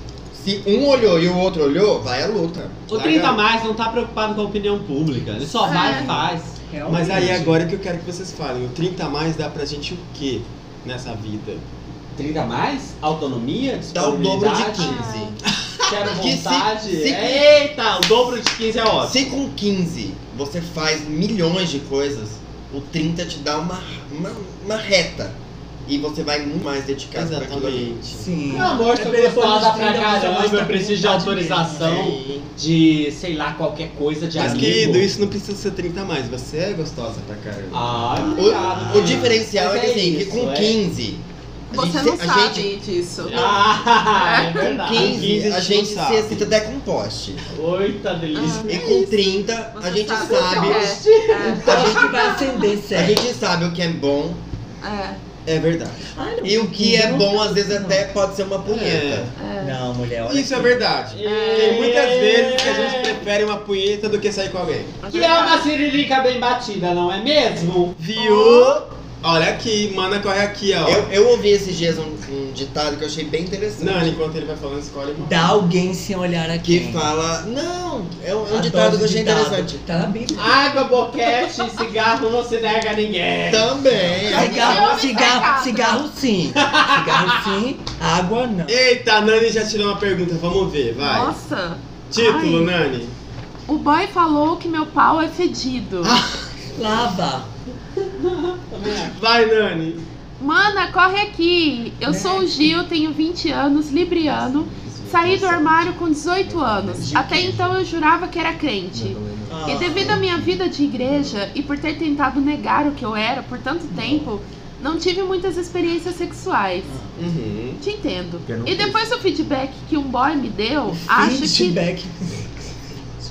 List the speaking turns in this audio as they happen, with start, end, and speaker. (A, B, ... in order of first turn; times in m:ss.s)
0:00.3-0:03.0 A
0:02.9-0:06.5 B
0:02.9-0:03.4 C
0:05.6-0:06.2 D
0:06.7-0:07.6 E
0:06.9-0:11.6 C
0:12.2-0:15.0 B
0:13.9-0:15.3 A
0:14.7-0:15.4 D
0:15.9-0:19.3 B
0:16.1-0:17.5 A
0:19.0-0:28.0 A
0:27.2-0:28.3 C
0:28.2-0:32.0 E
0:28.5-0:35.1 B
0:31.8-0:32.5 A
0:34.4-0:38.3 C
0:34.4-0:34.8 A
0:37.7-0:40.8 B
0:38.2-0:38.9 D
0:38.4-0:42.7 A
0:38.8-0:39.2 E
0:41.7-0:43.5 D
0:43.2-0:43.6 C
0:43.3-0:45.3 B
0:44.1-0:44.8 D
0:44.6-0:47.5 A
0:44.9-0:46.5 C
0:47.5-0:48.8 B
0:48.3-0:52.8 D
0:48.6-0:51.0 A
0:50.1-0:51.9 B
0:51.4-0:53.2 E
0:51.5-0:52.3 A
0:52.9-0:54.4 A
0:54.8-0:55.2 D
0:55.4-0:56.0 C
0:56.2-0:58.1 E
0:56.4-0:59.3 A
0:58.6-0:59.3 C
0:59.4-0:59.8 D
0:59.6-1:00.8 E
1:00.3-1:05.0 C
1:01.1-1:03.2 B
1:01.2-1:01.9 D
1:02.6-1:03.0 D
1:05.0-1:05.7 D
1:05.1-1:08.0 B
1:08.0-1:11.1 C
1:08.2-1:08.8 D
1:10.8-1:14.2 A
1:13.8-1:15.6 C
1:15.2-1:17.1 E
1:16.6-1:19.8 A
1:18.5-1:20.5 E
1:20.4-1:23.8 B
1:23.5-1:24.9 A
1:24.3-1:28.8 E
1:24.3-1:25.2 C
1:24.3-1:26.0 D
1:26.6-1:27.4 B
1:28.7-1:31.4 C
1:31.0-1:32.7 D
1:32.1-1:33.1 C
1:33.7-1:36.2 D
1:36.0-1:36.4 C
1:36.7-1:37.5 E
1:38.2-1:39.1 B
1:38.8-1:40.0 C
1:40.4-1:56.9 D
1:42.1-1:42.7 E
1:44.2-1:47.5 A
1:47.0-1:47.7 E
1:48.9-1:51.4 A
1:49.5-1:50.2 E
1:56.8-1:57.1 E
1:57.2-1:57.8 C
1:57.8-2:01.8 D
2:01.0-2:02.7 E